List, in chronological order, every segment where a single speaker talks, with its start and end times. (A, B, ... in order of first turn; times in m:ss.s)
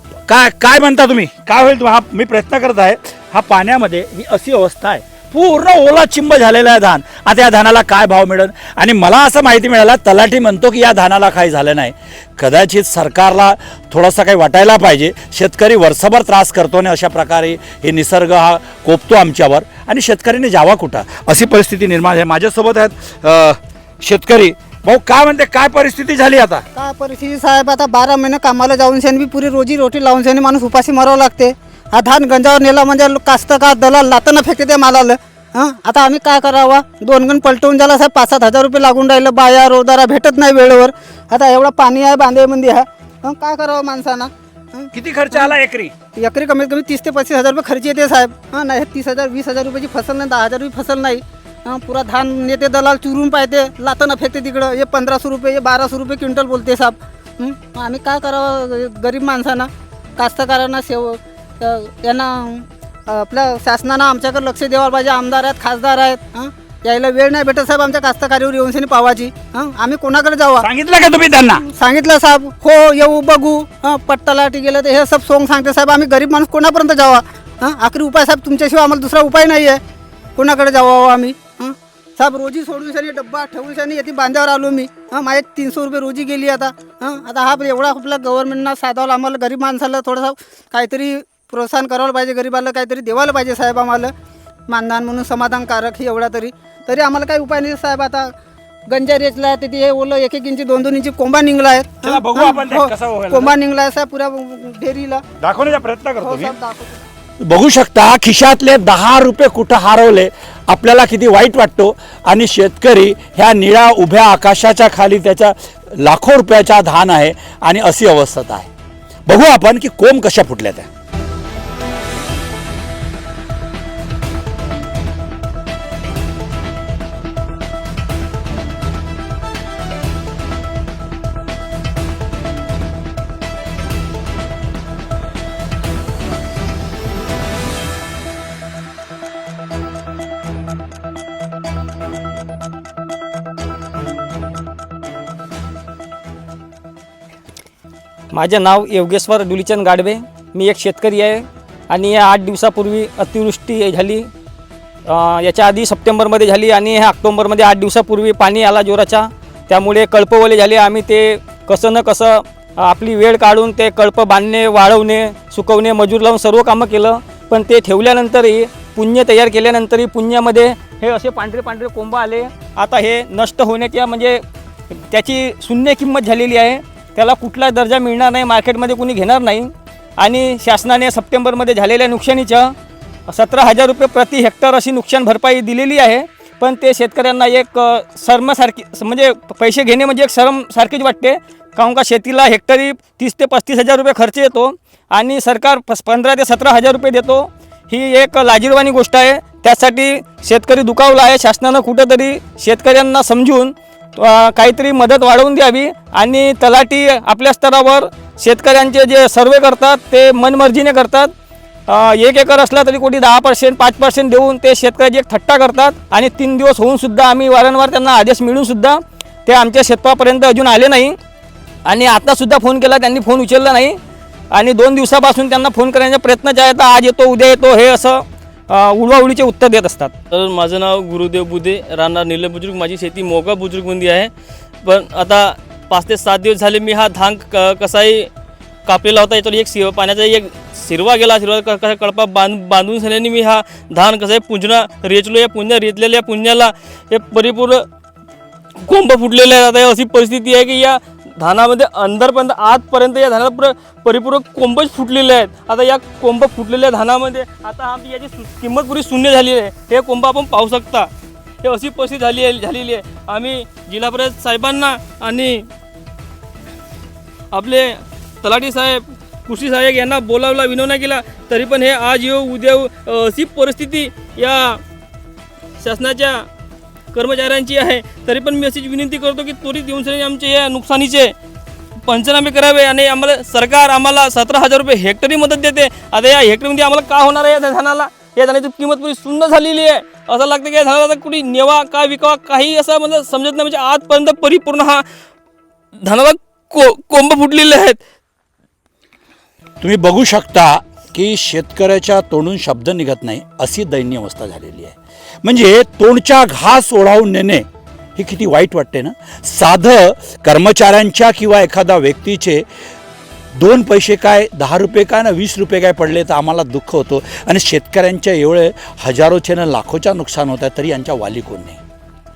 0:00.3-0:26.6 A
0:26.7-0:45.5 B
0:44.9-0:45.9 A
0:46.2-1:10.7 B
1:10.6-1:11.6 A
1:11.5-1:19.8 B
1:20.4-1:34.1 B
1:34.7-1:38.3 B
1:38.9-1:45.2 B
1:42.0-1:43.5 A
1:45.4-1:46.5 A
1:46.2-1:47.0 B
1:47.4-1:58.7 A
1:59.2-2:00.9 A
2:28.3-2:34.3 C
2:35.0-2:54.4 C
2:55.1-3:02.8 C
3:03.3-3:31.3 C
3:31.9-3:41.2 C
3:41.8-3:44.0 C
3:44.5-3:50.1 C
3:50.3-3:54.3 D
3:54.8-3:58.3 D
3:58.8-4:07.8 D
4:08.8-4:21.1 D
4:21.6-4:25.7 D
4:27.5-4:34.8 D
4:35.8-4:36.5 D
4:37.1-4:41.3 D
4:42.1-4:55.0 D
4:56.0-4:58.0 D
4:59.8-5:12.6 A
5:13.5-5:21.8 A